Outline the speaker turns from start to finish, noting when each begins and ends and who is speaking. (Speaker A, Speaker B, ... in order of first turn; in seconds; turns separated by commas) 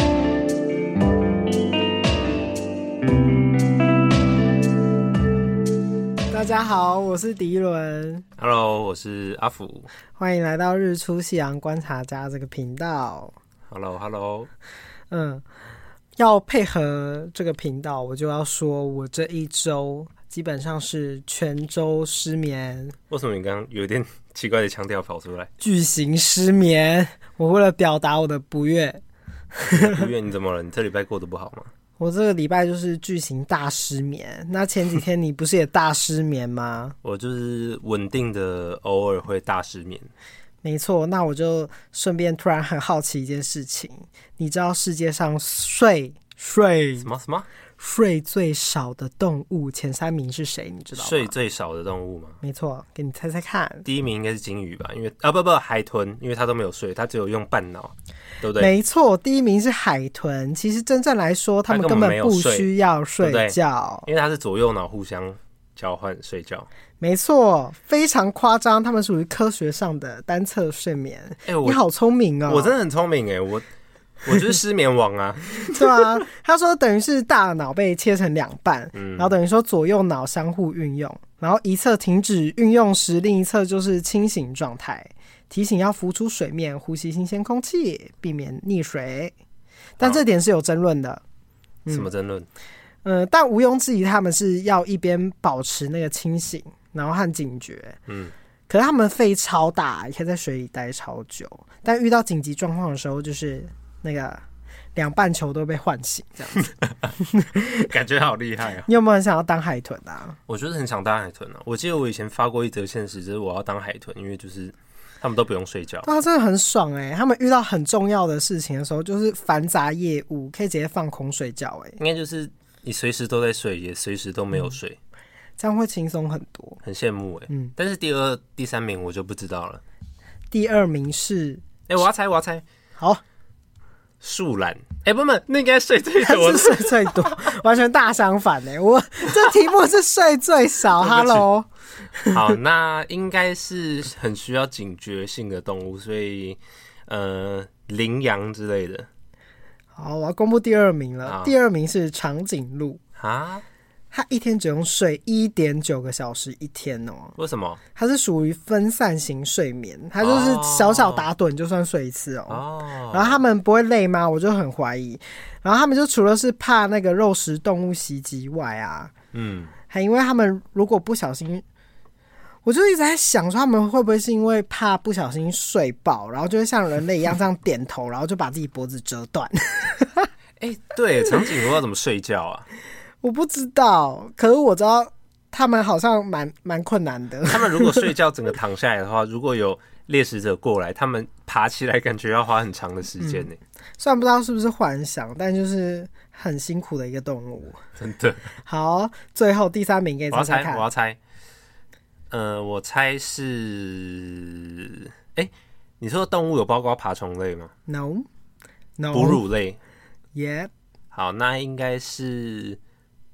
Speaker A: 6.3-8.2, Speaker B: 8.4-9.9, Speaker A: 10.2-13.3, Speaker B: 13.7-14.5, Speaker A: 15.1-15.4, Speaker A: 16.2-22.9, Speaker B: 23.1-25.5, Speaker A: 25.6-29.0, Speaker A: 29.5-30.1, Speaker B: 29.6-31.7, Speaker A: 32.0-36.9, Speaker B: 37.0-40.1, Speaker A: 40.6-47.1, Speaker B: 47.0-47.5, Speaker A: 47.8-51.3, Speaker B: 50.9-52.4, Speaker A: 52.4-53.8, Speaker B: 53.8-58.7, Speaker A: 58.6-64.1, Speaker B: 61.7-62.7, Speaker B: 63.2-66.7, Speaker A: 67.0-72.7, Speaker B: 71.5-71.8, Speaker B: 72.5-73.6, Speaker B: 74.2-76.0, Speaker A: 75.7-89.3, Speaker B: 78.9-79.3, Speaker A: 90.0-91.2, Speaker B: 91.9-92.5, Speaker A: 93.0-98.0, Speaker B: 98.1-98.3, Speaker A: 98.7-104.4, Speaker A: 105.0-107.9, Speaker B: 107.9-108.9, Speaker A: 108.8-110.4, Speaker B: 110.5-116.1, Speaker A: 116.0-122.0, Speaker B: 122.0-125.0, Speaker A: 125.6-126.8, Speaker B: 126.8-129.8, Speaker A: 127.5-127.7, Speaker A: 130.5-131.6, Speaker B: 131.9-132.6, Speaker B: 134.2-137.3, Speaker A: 136.2-142.5, Speaker B: 141.0-141.4, Speaker B: 142.3-149.1, Speaker A: 149.9-153.0, Speaker B: 151.2-151.5, Speaker B: 153.2-153.6, Speaker A: 154.1-157.3, Speaker B: 157.4-157.8, Speaker A: 157.9-169.1, Speaker B: 160.2-161.2, Speaker B: 162.5-163.4, Speaker B: 169.3-169.7, Speaker A: 169.9-171.6, Speaker A: 172.6-180.3, Speaker B: 180.6-182.7, Speaker A: 183.2-188.1, Speaker B: 187.5-193.6, Speaker A: 193.2-197.8, Speaker B: 198.0-198.5, Speaker A: 198.6-200.8, Speaker B: 200.3-201.2, Speaker B: 202.3-207.7, Speaker A: 207.9-208.2, Speaker A: 209.0-209.4, Speaker B: 209.1-209.8, Speaker A: 210.3-210.7, Speaker B: 211.1-212.8